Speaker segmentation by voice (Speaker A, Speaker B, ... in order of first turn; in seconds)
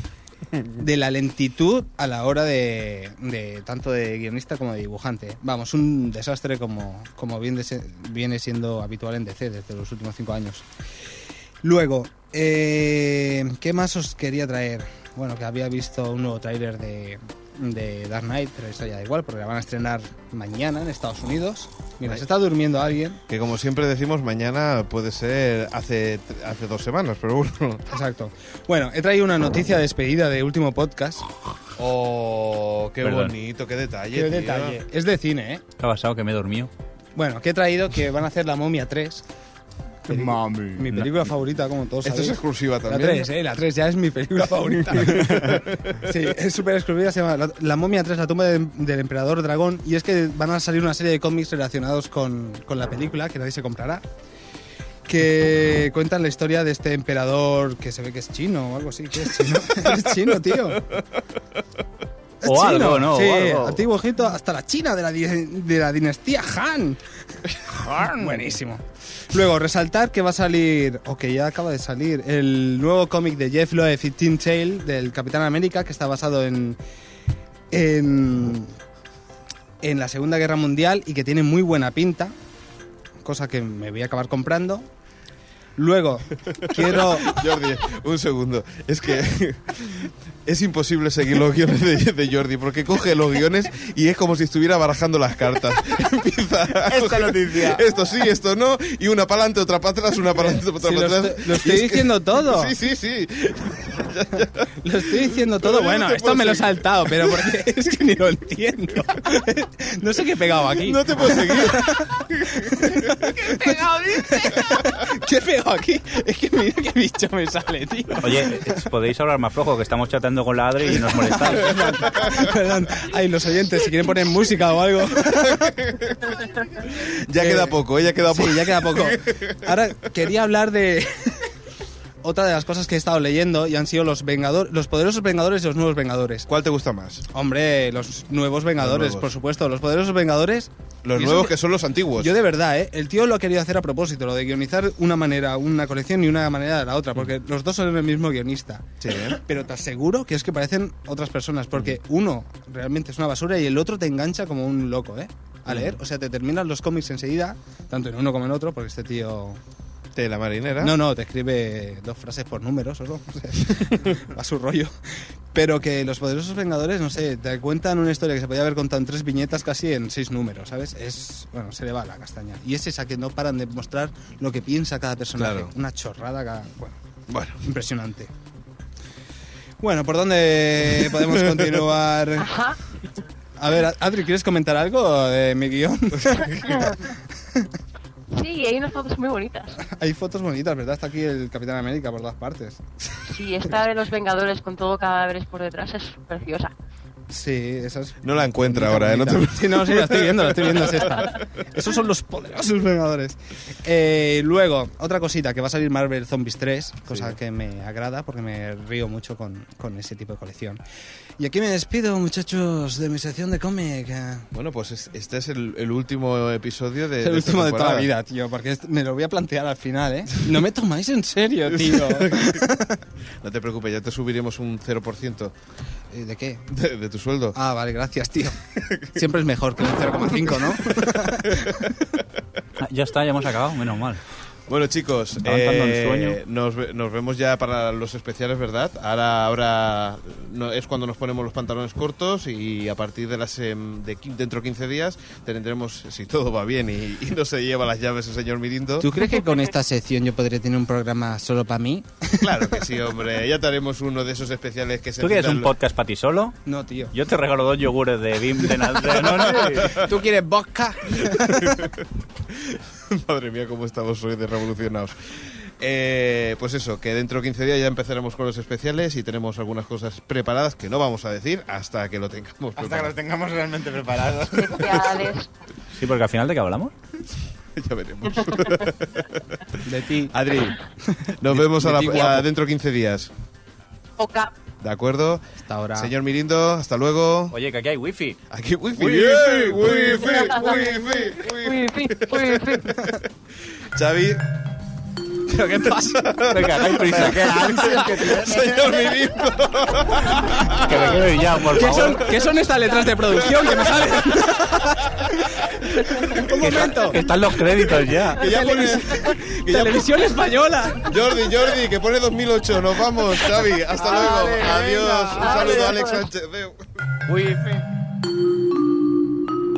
Speaker A: 0.8-10.7, 11.6-23.2, 27.9-31.3, 34.1-35.6, 37.1-39.2, 40.0-54.0, 55.0-60.8, 62.4-76.8, 77.7-78.7, 79.8-82.3, 83.2-84.9, 85.8-87.4, 100.3-102.8, 104.8-118.8, 120.9-125.8, 127.3-131.5, 132.2-136.5, 137.3-141.6, 142.2-159.6, 160.8-164.9, 165.5-177.0, 177.6-178.3, 179.8-182.5, 183.6-186.9, 189.8-193.2, 197.3-210.8, 211.4-214.5, 217.2-223.0, 226.1-226.7, 227.5-228.6, 229.1-232.0, 249.0-252.8, 256.6-257.1, 259.2-261.9, 279.8-280.3, 281.0-282.5, 285.5-286.1, 289.2-290.3, 295.5-296.8, 297.6-298.0, 301.7-307.2, 308.3-311.2, 313.9-316.0, 317.3-317.8
Speaker B: 23.3-27.9, 31.8-34.8, 42.0-43.3, 44.6-46.0, 60.7-61.0, 86.6-107.7, 110.8-113.8, 114.6-114.9, 125.5-126.3, 126.8-129.6, 136.5-137.3, 138.8-139.3, 141.0-142.3, 149.0-149.4, 155.7-156.0, 160.1-160.9, 163.8-164.1, 175.4-175.7, 177.3-177.6, 181.1-182.0, 198.2-201.3, 207.1-207.3, 214.5-218.1, 221.7-222.6, 223.4-225.5, 226.7-227.6, 228.8-229.1, 231.1-231.8, 234.7-249.1, 252.4-255.7, 259.1-260.0, 261.2-273.1, 277.8-279.8, 280.3-280.8, 281.4-283.3, 284.8-287.6, 288.5-293.3, 293.9-294.5, 296.0-302.1, 303.1-304.5, 305.2-307.3, 308.3-310.1, 311.1-316.8
Speaker C: 33.0-33.3, 35.8-36.7, 62.4-63.8, 118.2-122.2, 232.8-234.2, 235.4-236.4, 255.2-256.6, 257.1-260.0, 275.9-276.9, 287.5-288.4, 288.9-289.9, 296.5-297.9, 300.7-302.3, 306.6-308.6
Speaker D: 40.1-40.9, 96.9-97.8, 272.8-275.3, 297.1-299.1
Speaker E: 182.4-182.8, 186.6-187.1, 188.3-189.8, 193.2-196.7, 249.2-249.6, 274.5-275.5, 284.2-284.5, 290.1-293.0, 315.4-316.3